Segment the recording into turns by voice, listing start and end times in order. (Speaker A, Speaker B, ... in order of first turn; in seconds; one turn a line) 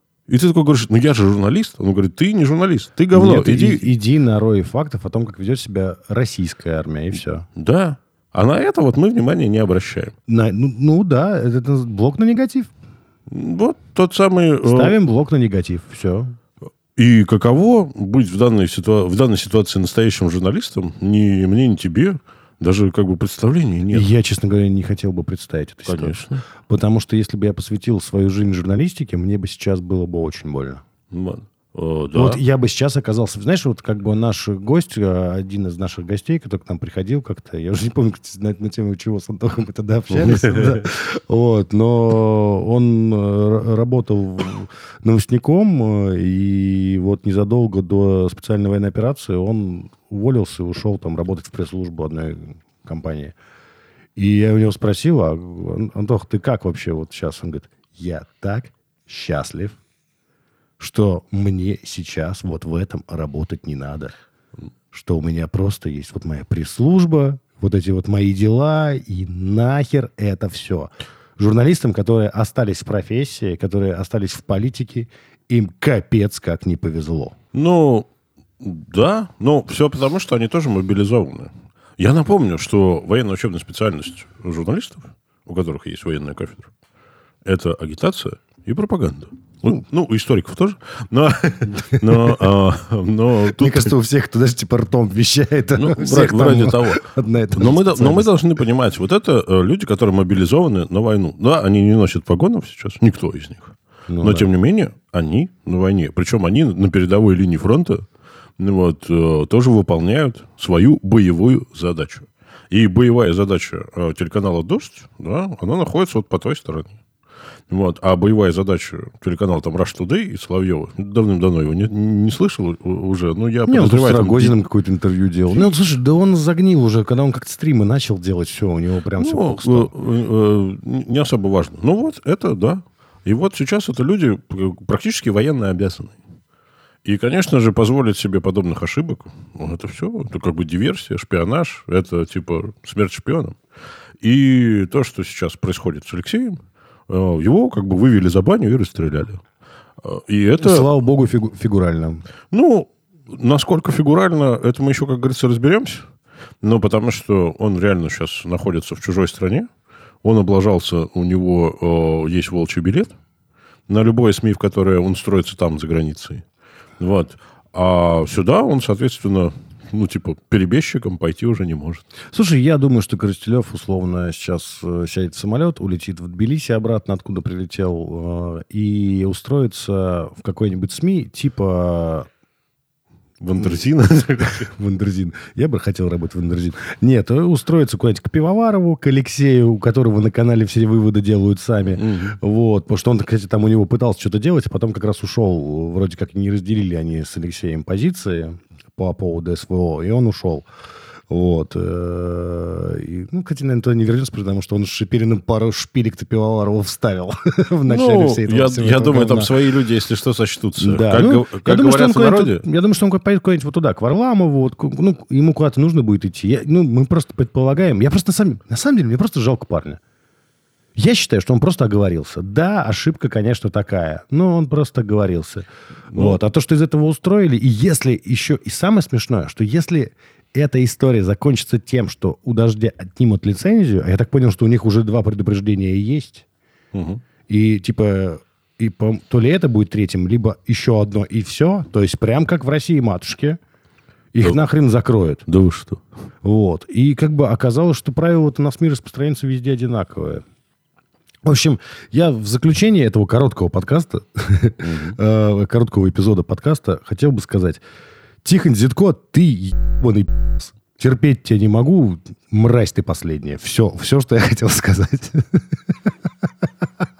Speaker A: 0.3-3.9
Speaker B: 3.1-7.5
Speaker A: 7.5-10.1
Speaker B: 10.3-12.7
Speaker A: 13.3-14.9
Speaker B: 14.6-16.3
Speaker A: 16.9-24.1
Speaker B: 23.9-30.8
Speaker A: 25.8-26.4
Speaker A: 31.1-32.4
Speaker B: 32.1-53.3
Speaker A: 40.1-40.9
Speaker B: 54.1-59.8
Speaker B: 60.8-64.1
Speaker B: 64.9-77.3
Speaker A: 77.5-78.1
Speaker A: 78.6-86.7
Speaker A: 87.4-93.9
Speaker B: 91.8-92.5
Speaker B: 93.5-98.3
Speaker A: 95.7-108.1
Speaker B: 104.1-104.5
Speaker A: 108.6-117.0
Speaker A: 117.7-124.6
Speaker B: 123.7-129.9
Speaker A: 125.5-125.7
Speaker A: 129.2-136.2
Speaker A: 137.0-143.6
Speaker A: 144.2-149.4
Speaker A: 150.0-150.9
Speaker B: 150.6-152.2
Speaker A: 152.5-156.1
Speaker A: 156.6-159.7
Speaker A: 160.2-163.1
Speaker A: 163.9-166.4
Speaker A: 167.0-172.0
Speaker B: 172.3-182.3
Speaker A: 183.4-184.7
Speaker B: 184.4-200.7
Speaker A: 192.0-192.4
Speaker B: 201.3-209.5
Speaker A: 207.9-212.6
Speaker B: 210.8-220.0
Speaker B: 220.9-236.4
Speaker A: 226.1-226.4
Speaker A: 236.9-237.2
Speaker B: 237.5-243.6
Speaker B: 244.3-245.4
Speaker A: 245.5-246.0
Speaker B: 246.4-250.4
Speaker B: 251.4-257.8
Speaker A: 254.8-255.2
Speaker B: 258.4-265.6